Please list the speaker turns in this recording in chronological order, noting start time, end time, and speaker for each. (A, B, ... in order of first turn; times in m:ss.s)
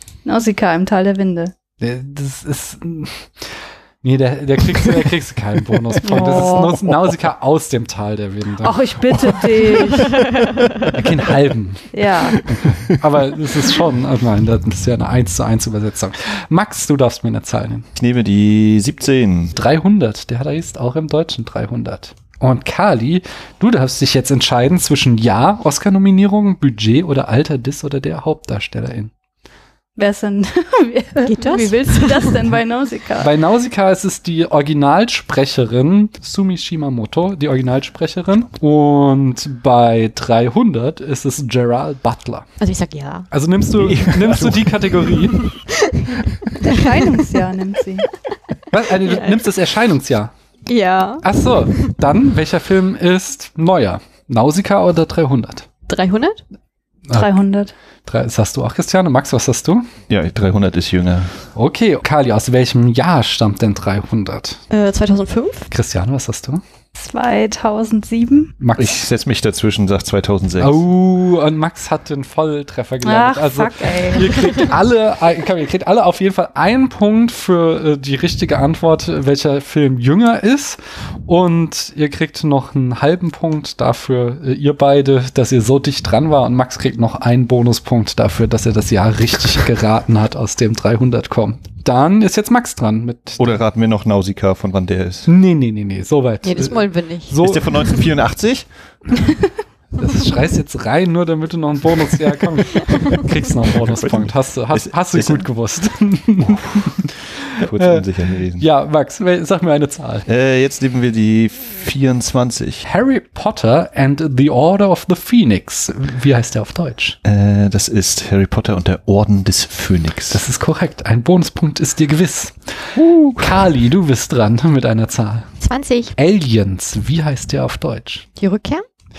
0:00.2-0:01.5 A
0:01.8-0:09.7 B
0:06.0-0:06.8 A
0:08.6-0:10.4 A
0:10.9-0:17.9 B
0:11.9-0:12.4 A
0:12.6-0:12.9 C
0:18.0-0:19.5 C
0:19.6-0:29.1 B
0:30.0-0:33.3 A
0:31.2-0:32.4 D
0:33.2-0:42.5 B
0:42.6-0:43.3 D
0:43.3-0:45.5 B
0:43.7-0:45.1 C
0:45.4-0:47.3 D
0:46.6-0:48.1 A
0:48.7-0:50.3 B
0:49.0-0:49.5 D
0:50.7-0:51.9 D
0:51.2-0:55.7 B
0:55.9-0:56.4 D
0:57.1-0:57.7 A
0:58.0-0:59.9 B
1:00.1-1:01.4 C
1:01.5-1:04.6 B
1:04.7-1:05.7 D
1:05.7-1:06.6 B
1:07.0-1:08.5 A
1:08.6-1:09.0 B
1:08.8-1:10.8 C
1:10.6-1:33.6 B
1:13.0-1:14.7 A
1:33.4-1:35.3 C
1:35.3-1:37.9 B
1:36.4-1:37.4 D
1:37.4-1:38.7 C
1:40.0-1:50.3 B
1:43.7-1:45.5 C
1:46.4-1:47.0 C
1:47.6-1:48.6 C
1:50.3-1:52.8 C
1:52.8-1:57.2 B
1:57.2-2:00.4 C
2:00.3-2:05.5 B
2:03.0-2:03.6 C
2:05.6-2:06.1 D
2:06.2-2:08.3 B
2:08.4-2:08.8 D